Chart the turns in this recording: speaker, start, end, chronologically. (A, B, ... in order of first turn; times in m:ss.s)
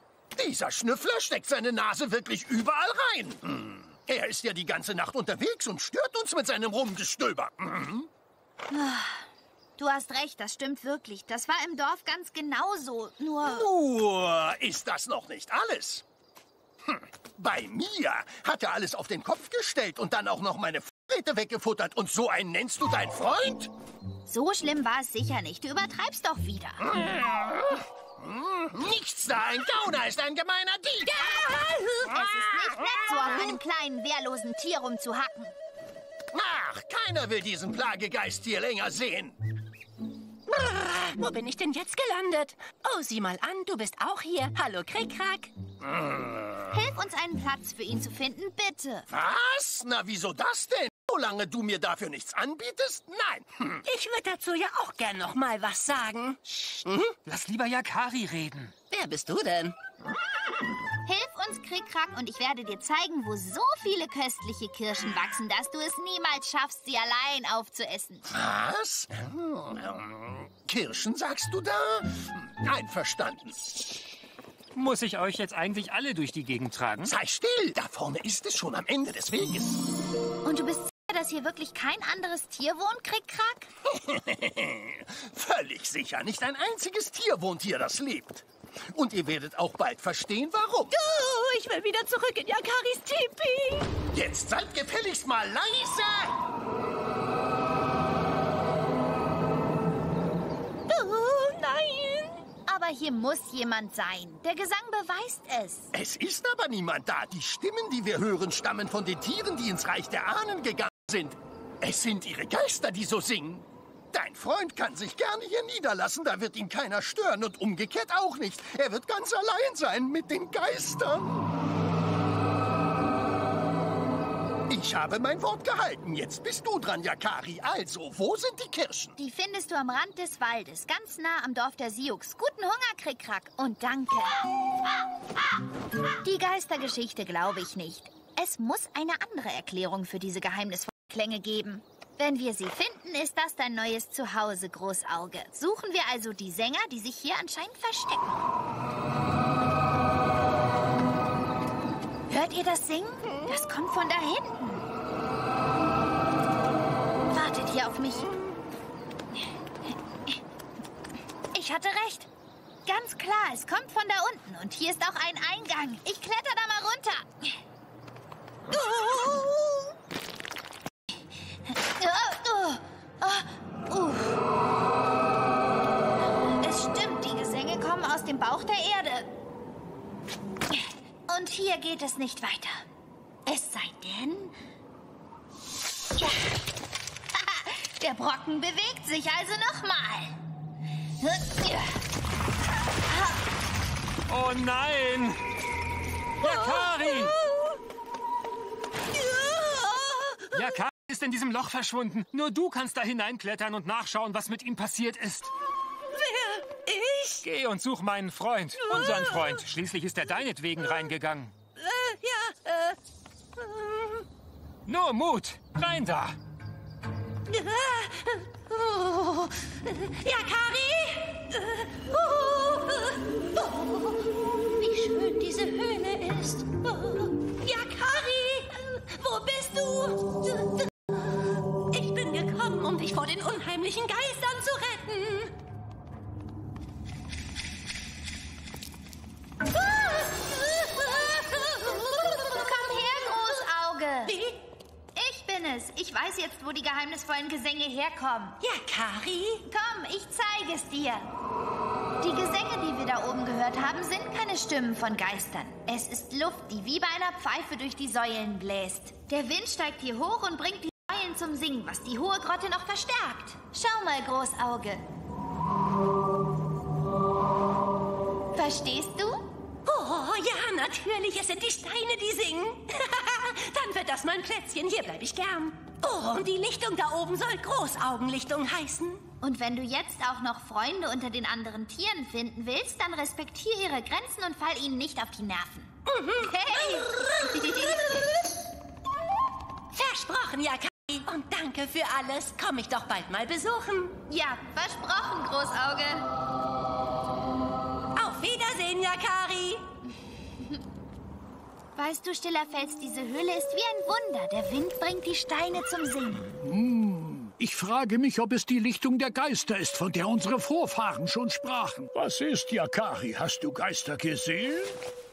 0:00.4-0:08.1 A
0:08.7-0:13.7 B
0:13.4-0:16.0 A
0:16.8-0:23.7 A
0:24.2-0:26.8 B
0:27.0-0:27.6 A
0:28.2-0:31.2 A
0:31.1-0:32.1 C
0:32.0-0:35.5 B
0:36.3-0:39.4 A
0:40.5-0:45.5 C
0:45.9-0:46.6 A
0:46.7-0:49.1 B
0:49.1-0:53.8 A
0:53.8-0:57.1 C
0:57.2-0:58.7 D
0:58.9-0:59.7 C
1:01.0-1:08.2 B
1:08.3-1:13.6 A
1:14.7-1:17.1 D
1:17.0-1:19.8 A
1:20.4-1:23.7 B
1:23.9-1:30.9 A
1:30.9-1:33.9 C
1:34.1-1:36.4 A
1:40.9-1:42.4 C
1:42.7-1:45.9 B
1:45.9-2:01.5 A
2:04.7-2:09.2 A
2:09.2-2:14.4 B
2:16.2-2:28.5 B
2:32.3-2:34.8 B
2:37.3-2:38.3 B
2:39.4-2:40.4 B
2:41.5-2:42.3 B
2:42.8-2:47.6 B
2:48.7-2:49.9 B
2:51.7-2:54.4 B
2:56.6-2:59.3 B
3:00.7-3:02.8 B
3:03.4-3:04.5 B
3:07.3-3:10.4 B
3:11.2-3:11.8 B
3:14.3-3:15.4 D
3:16.4-3:17.3 D
3:16.4-3:17.6 C
3:19.2-3:20.8 C
3:20.5-3:25.5 D
3:26.1-3:27.4 C
3:27.4-3:31.5 D
3:28.8-3:29.6 C
3:31.8-3:33.0 C
3:33.6-3:34.2 C
3:34.8-3:36.4 D
3:37.5-3:50.8 C
3:51.9-3:55.5 C
3:59.8-4:02.4 C
4:02.4-4:04.3 B
4:04.2-4:04.6 C
4:05.1-4:08.6 B
4:08.6-4:09.6 C
4:09.7-4:11.3 B
4:12.2-4:25.0 B
4:28.5-4:29.4 B
4:29.8-4:39.2 C
4:39.4-4:47.8 B
4:46.0-4:48.2 C
4:49.9-4:54.2 C
4:54.3-4:56.3 B
4:58.2-4:59.8 C
5:02.0-5:06.5 B
5:06.6-5:15.0 E